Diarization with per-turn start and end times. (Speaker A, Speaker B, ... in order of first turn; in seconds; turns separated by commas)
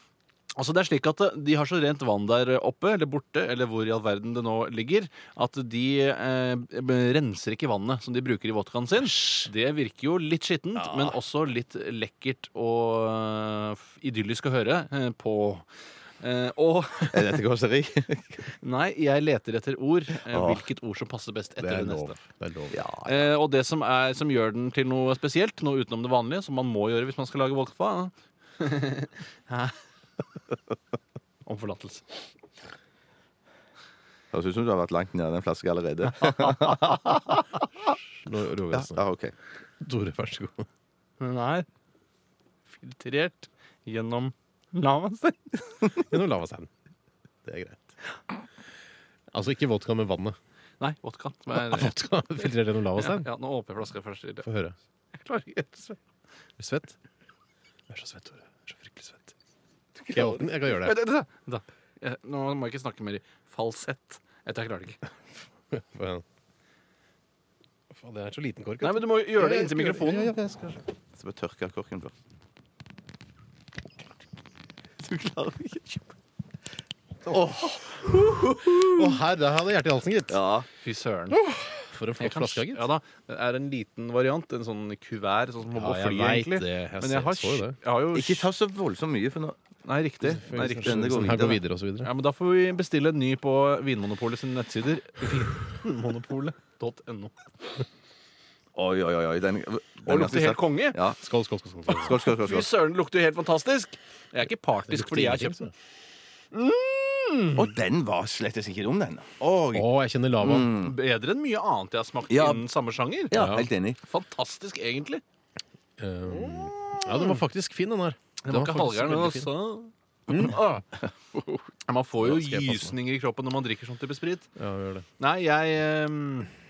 Speaker A: 0.6-15.7, Speaker B: 10.8-11.2, Speaker A: 16.2-17.4, Speaker B: 17.1-18.5, Speaker A: 18.6-22.2, Speaker B: 20.3-20.7, Speaker C: 21.6-22.8, Speaker B: 22.7-23.1, Speaker A: 23.0-29.8, Speaker A: 31.4-32.0, Speaker B: 34.3-37.6, Speaker C: 38.2-39.0, Speaker B: 38.7-39.3, Speaker C: 39.8-40.7, Speaker A: 41.2-41.7, Speaker A: 42.7-46.0, Speaker C: 45.9-46.7, Speaker C: 47.5-47.9, Speaker C: 49.3-50.4, Speaker A: 50.8-54.5, Speaker C: 51.5-53.3, Speaker C: 54.4-54.7, Speaker A: 55.1-56.0, Speaker C: 56.6-57.0, Speaker C: 57.9-59.3, Speaker B: 60.1-60.3, Speaker C: 60.1-61.0, Speaker A: 60.5-65.0, Speaker C: 65.7-66.2, Speaker C: 67.9-70.8, Speaker A: 68.8-70.4, Speaker B: 71.2-72.1, Speaker B: 75.0-76.1, Speaker C: 77.3-77.8, Speaker B: 77.3-79.2, Speaker C: 78.4-80.4, Speaker B: 80.3-80.7, Speaker A: 80.8-81.4, Speaker C: 81.3-82.9, Speaker A: 82.2-88.5, Speaker C: 85.8-87.8, Speaker B: 88.1-89.6, Speaker A: 89.8-91.1, Speaker C: 90.2-92.1, Speaker B: 90.5-91.6, Speaker A: 92.0-97.3, Speaker B: 98.8-101.2, Speaker A: 100.1-101.0, Speaker C: 101.1-102.2, Speaker A: 101.9-105.7, Speaker B: 102.0-102.7, Speaker C: 104.9-105.7, Speaker A: 106.5-107.8, Speaker B: 107.5-109.9, Speaker C: 109.7-110.7, Speaker B: 110.4-111.0, Speaker A: 110.8-115.2, Speaker B: 112.3-112.6, Speaker B: 113.3-114.0, Speaker C: 113.3-113.7, Speaker C: 116.0-119.5, Speaker B: 116.3-117.3, Speaker A: 118.5-120.8, Speaker C: 120.3-120.8, Speaker A: 121.9-124.5, Speaker C: 122.2-123.0, Speaker C: 124.6-125.1, Speaker A: 125.2-126.5